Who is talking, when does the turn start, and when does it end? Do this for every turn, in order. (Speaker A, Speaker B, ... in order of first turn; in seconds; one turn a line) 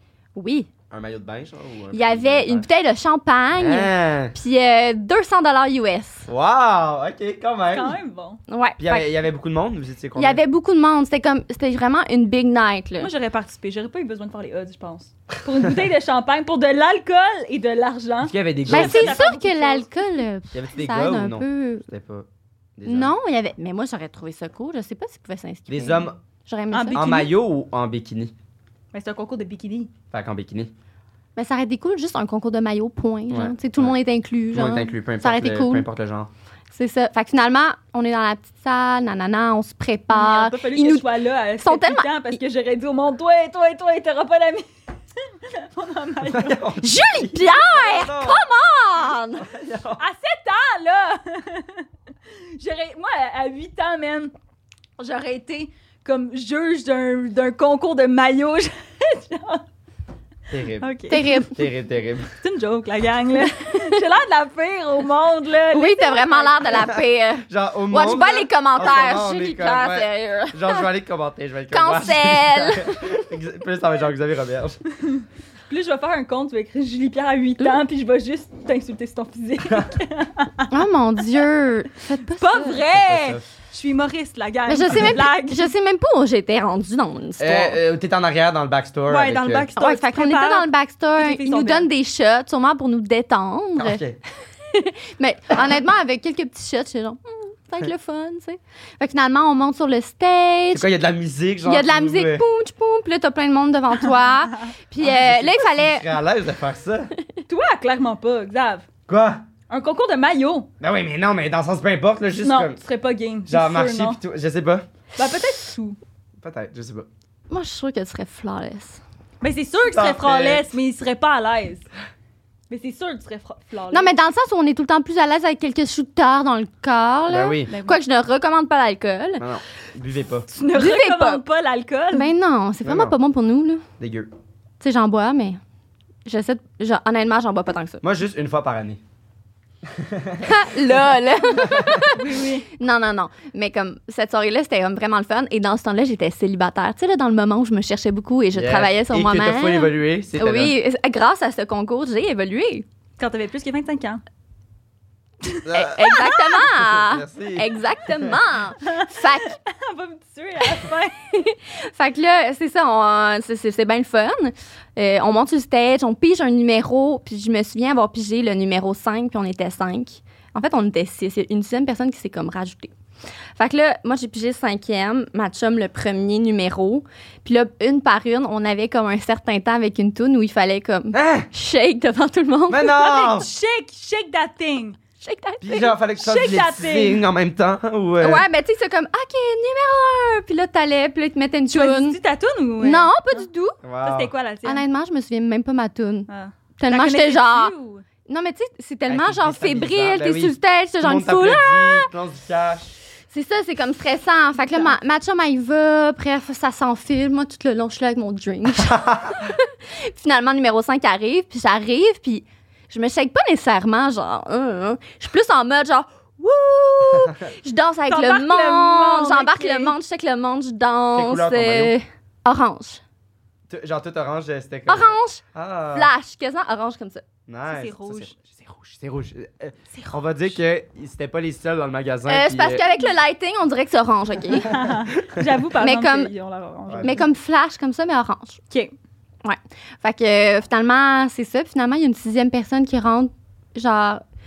Speaker A: 0.3-0.7
Speaker B: 0.9-2.7
Speaker A: 1.9-6.3
Speaker B: 3.6-4.3
Speaker B: 6.3-8.0
Speaker C: 7.7-8.4
Speaker A: 8.5-9.1
Speaker B: 8.8-10.4
Speaker A: 10.2-13.1
Speaker C: 13.0-19.9
Speaker B: 18.2-19.2
Speaker A: 18.7-21.9
Speaker B: 20.5-23.1
Speaker A: 22.8-27.3
Speaker B: 25.7-26.1
Speaker C: 26.7-27.2
Speaker B: 26.9-28.3
Speaker C: 28.9-29.9
Speaker B: 30.1-30.7
Speaker A: 31.4-35.9
Speaker B: 33.3-33.9
Speaker B: 34.5-36.3
Speaker A: 36.7-42.3
Speaker C: 40.1-44.7
Speaker C: 45.4-46.7
Speaker B: 46.2-48.5
Speaker A: 46.8-49.5
Speaker B: 49.4-50.0
Speaker C: 50.0-51.9
Speaker C: 52.5-54.3
Speaker C: 55.0-59.6
Speaker B: 60.5-60.9
Speaker C: 60.8-61.3
Speaker A: 61.1-61.6
Speaker B: 61.4-62.3
Speaker C: 62.4-66.8
Speaker A: 65.7-70.8
Speaker B: 67.5-74.8
Speaker A: 71.7-73.3
Speaker C: 75.1-80.7
Speaker A: 80.7-82.8
Speaker C: 82.4-85.7
Speaker B: 82.9-83.4
Speaker A: 84.7-87.8
Speaker B: 87.4-89.7
Speaker C: 89.1-91.9
Speaker A: 89.8-94.0
Speaker B: 93.8-94.2
Speaker A: 94.7-100.8
Speaker B: 100.7-102.4
Speaker A: 101.6-106.1
Speaker B: 105.0-107.1
Speaker C: 107.5-108.9
Speaker B: 109.1-109.4
Speaker C: 109.7-110.7
Speaker B: 110.8-112.8
Speaker C: 112.4-114.2
Speaker B: 113.5-114.9
Speaker C: 115.2-116.0
Speaker B: 116.4-117.1
Speaker A: 117.5-119.0
Speaker C: 119.4-121.9
Speaker B: 119.9-120.7
Speaker C: 122.7-124.1
Speaker A: 123.9-129.4
Speaker B: 127.3-127.7
Speaker C: 127.7-128.0
Speaker B: 129.4-130.5
Speaker C: 130.5-132.3
Speaker A: 130.7-131.4
Speaker A: 132.1-133.8
Speaker B: 132.8-133.1
Speaker B: 134.0-134.3
Speaker A: 134.8-135.6
Speaker A: 136.2-138.0
Speaker B: 138.0-139.0
Speaker B: 139.8-142.1
Speaker A: 140.4-152.8
Speaker C: 142.1-142.7
Speaker B: 148.5-150.7
Speaker C: 153.2-154.2
Speaker C: 155.4-156.3
Speaker B: 155.6-158.3
Speaker A: 155.7-159.6
Speaker C: 158.8-161.1
Speaker A: 161.3-172.9
Speaker A: 173.6-182.9
Speaker B: 181.1-181.5
Speaker B: 182.7-183.5
Speaker C: 182.9-185.0
Speaker A: 185.2-185.9
Speaker B: 185.6-188.4
Speaker C: 186.2-187.2
Speaker A: 188.2-192.2
Speaker C: 191.7-193.4
Speaker A: 192.8-193.8
Speaker B: 193.8-194.3
Speaker C: 194.0-194.8
Speaker A: 194.6-197.7
Speaker C: 196.3-198.0
Speaker A: 198.2-202.1
Speaker B: 199.1-202.9
Speaker A: 203.3-223.0
Speaker B: 208.8-209.5
Speaker C: 218.1-219.9
Speaker B: 221.1-221.9
Speaker B: 223.7-226.1
Speaker A: 224.9-227.2
Speaker B: 227.5-232.8
Speaker C: 227.7-228.4
Speaker C: 229.9-230.2
Speaker A: 232.3-234.7
Speaker C: 234.6-237.2
Speaker A: 235.8-236.3
Speaker B: 236.9-237.2
Speaker A: 237.0-238.6
Speaker A: 239.4-244.2